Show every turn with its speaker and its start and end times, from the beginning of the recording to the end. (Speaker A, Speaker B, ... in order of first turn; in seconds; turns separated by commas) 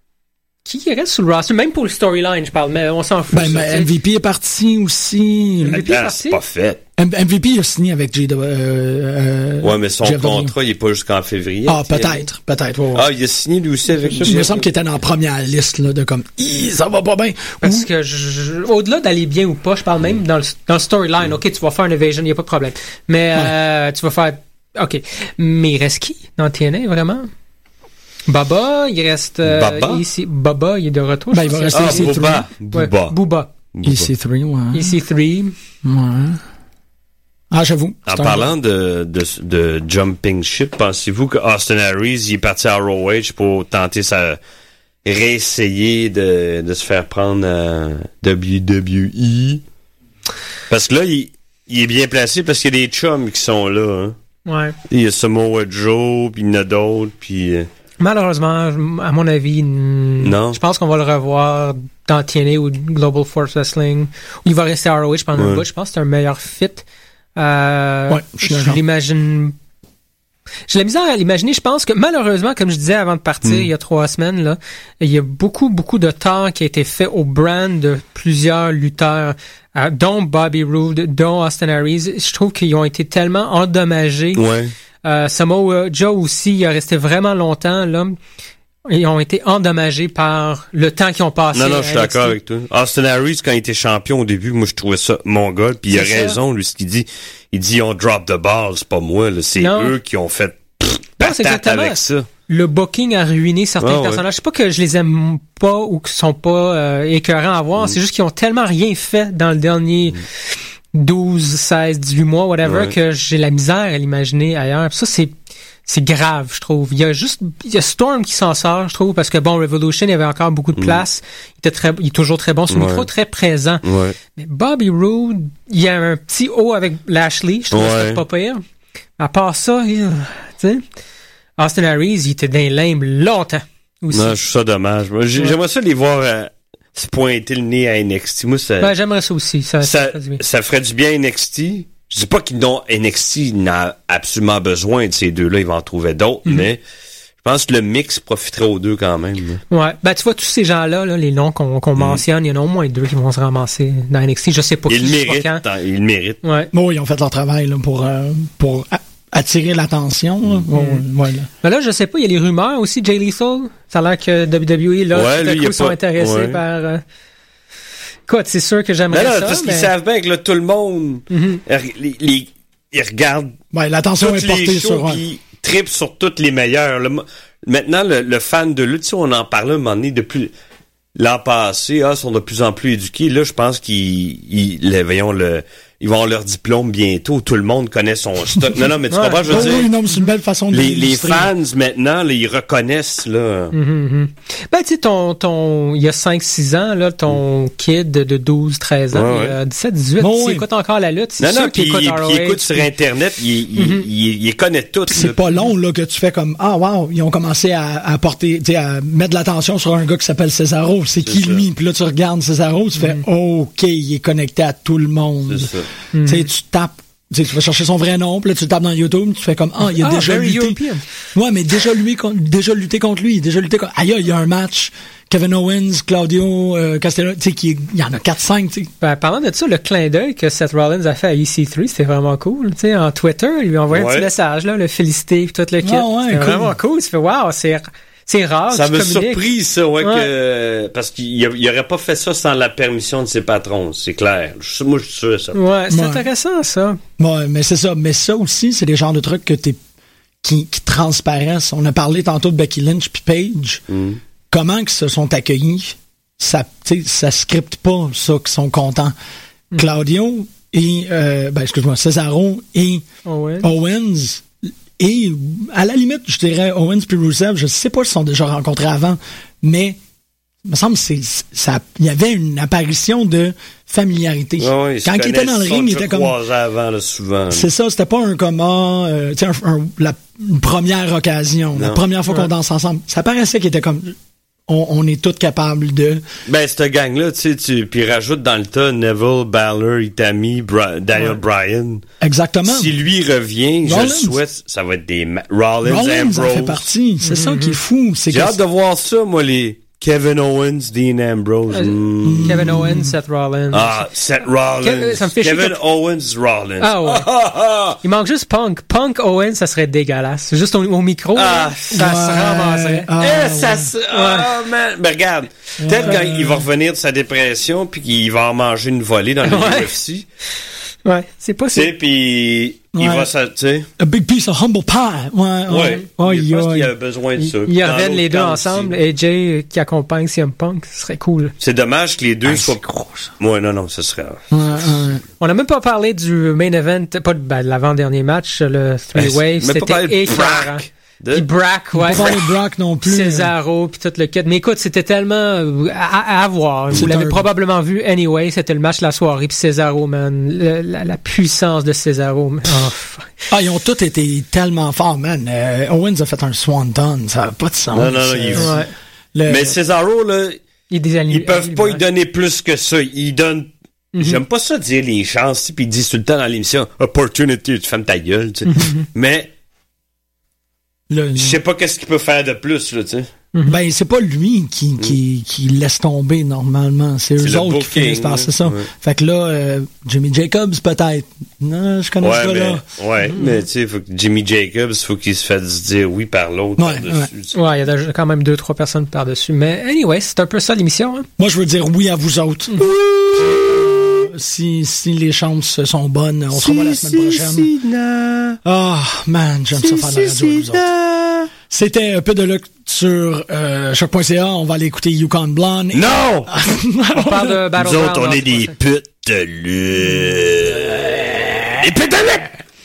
Speaker A: 0.6-3.9, Speaker B: 3.3-5.8, Speaker A: 5.6-6.4, Speaker C: 5.7-6.8, Speaker B: 7.0-10.5, Speaker C: 9.6-12.2, Speaker B: 11.7-13.1, Speaker C: 12.9-14.7, Speaker B: 14.0-17.9, Speaker A: 17.6-27.3, Speaker A: 28.3-33.5, Speaker C: 29.4-30.0, Speaker B: 31.3-32.5, Speaker C: 31.7-33.2, Speaker C: 33.7-34.1, Speaker B: 33.8-35.0, Speaker A: 34.7-35.5, Speaker B: 35.8-36.4, Speaker B: 37.5-38.5, Speaker C: 38.0-44.4, Speaker C: 45.0-49.6, Speaker C: 50.7-54.1, Speaker A: 54.5-54.8, Speaker C: 54.9-57.7, Speaker A: 58.0-66.8, Speaker C: 60.2-60.6, Speaker C: 65.3-65.6, Speaker A: 67.3-69.5, Speaker B: 68.1-68.8, Speaker A: 70.7-84.4, Speaker C: 84.3-84.7, Speaker A: 85.0-88.2, Speaker A: 88.9-92.4, Speaker C: 91.5-102.3, Speaker A: 95.9-96.4, Speaker A: 99.6-99.9, Speaker A: 101.2-110.2, Speaker C: 103.8-104.2, Speaker A: 110.9-115.3, Speaker C: 112.6-112.9, Speaker A: 115.8-123.8, Speaker C: 120.8-121.0, Speaker C: 122.7-123.0, Speaker C: 123.8-124.2, Speaker A: 124.3-128.6, Speaker C: 127.7-128.2, Speaker A: 129.2-130.8, Speaker A: 131.6-134.3, Speaker C: 134.1-138.9, Speaker A: 138.8-140.4, Speaker C: 139.8-146.8, Speaker C: 147.4-149.6, Speaker A: 149.7-155.6, Speaker C: 152.0-152.2, Speaker C: 154.9-156.4, Speaker A: 156.4-156.7, Speaker B: 156.7-161.5, Speaker A: 160.7-161.0, Speaker A: 161.6-167.0, Speaker C: 165.1-166.6, Speaker A: 168.3-169.9, Speaker C: 169.1-173.6, Speaker A: 171.3-171.6, Speaker B: 173.7-175.2, Speaker C: 174.2-180.5, Speaker C: 181.2-189.9, Speaker A: 189.1-189.8, Speaker B: 189.5-191.5, Speaker C: 190.7-193.7, Speaker A: 193.7-202.9, Speaker C: 199.1-199.6, Speaker B: 200.2-200.7, Speaker C: 201.4-205.4, Speaker A: 203.8-204.0, Speaker B: 205.1-220.8, Speaker C: 211.2-211.6, Speaker A: 213.0-213.2, Speaker C: 215.5-215.8, Speaker A: 216.1-216.5, Speaker A: 219.8-221.1, Speaker B: 221.3-228.9, Speaker A: 229.0-239.4, Speaker C: 233.9-234.3, Speaker B: 235.8-236.8, Speaker C: 238.7-245.6, Speaker A: 240.0-240.3, Speaker A: 245.5-247.0, Speaker B: 245.9-246.3, Speaker B: 247.2-249.8, Speaker B: 250.4-253.8, Speaker C: 253.9-254.2, Speaker B: 254.5-259.1, Speaker B: 259.8-263.0, Speaker A: 263.2-263.7, Speaker B: 263.6-264.4, Speaker B: 265.0-270.0, Speaker B: 270.6-276.4, Speaker C: 274.6-277.7, Speaker B: 277.5-284.1, Speaker C: 281.7-282.0, Speaker B: 284.7-286.2, Speaker C: 286.5-292.0, Speaker B: 292.2-292.9, Speaker C: 292.6-296.8, Speaker B: 293.8-294.4, Speaker B: 295.8-298.6, Speaker A: 297.2-297.8, Speaker C: 298.3-302.8, Speaker A: 301.7-304.1, Speaker B: 302.2-303.1, Speaker C: 303.7-308.0, Speaker A: 304.8-305.8, Speaker A: 306.8-307.3, Speaker A: 308.0-313.1, Speaker C: 311.3-311.9, Speaker B: 311.9-313.9, Speaker C: 313.2-320.2, Speaker A: 314.1-314.5, Speaker B: 315.8-316.6, Speaker A: 319.4-319.9, Speaker A: 321.0-321.9, Speaker C: 321.7-323.9, Speaker B: 322.9-323.3, Speaker B: 324.0-326.9, Speaker C: 325.7-328.9, Speaker A: 327.4-331.5, Speaker C: 331.6-332.8, Speaker B: 332.4-333.3, Speaker C: 333.4-334.8, Speaker B: 334.5-335.2, Speaker A: 335.4-342.4, Speaker C: 339.1-341.4, Speaker B: 341.9-343.5, Speaker A: 343.0-353.3, Speaker B: 346.9-347.5, Speaker B: 353.5-358.8, Speaker C: 357.9-358.7, Speaker A: 358.6-358.9, Speaker B: 359.3-359.8, Speaker C: 359.5-360.6, Speaker A: 360.9-362.0, Speaker C: 361.3-369.5, Speaker A: 364.1-364.4, Speaker A: 368.7-369.0, Speaker B: 371.1-371.6, Speaker C: 371.4-373.3, Speaker B: 373.6-382.8, Speaker C: 377.4-378.9, Speaker C: 382.2-387.5, Speaker A: 383.3-383.6, Speaker B: 386.8-387.3, Speaker A: 387.5-391.3, Speaker B: 391.4-397.7, Speaker C: 392.8-394.1, Speaker C: 396.5-398.6, Speaker B: 398.6-400.8, Speaker C: 399.8-401.5, Speaker B: 401.7-407.6, Speaker C: 405.9-406.6, Speaker A: 407.1-408.7, Speaker C: 407.8-412.6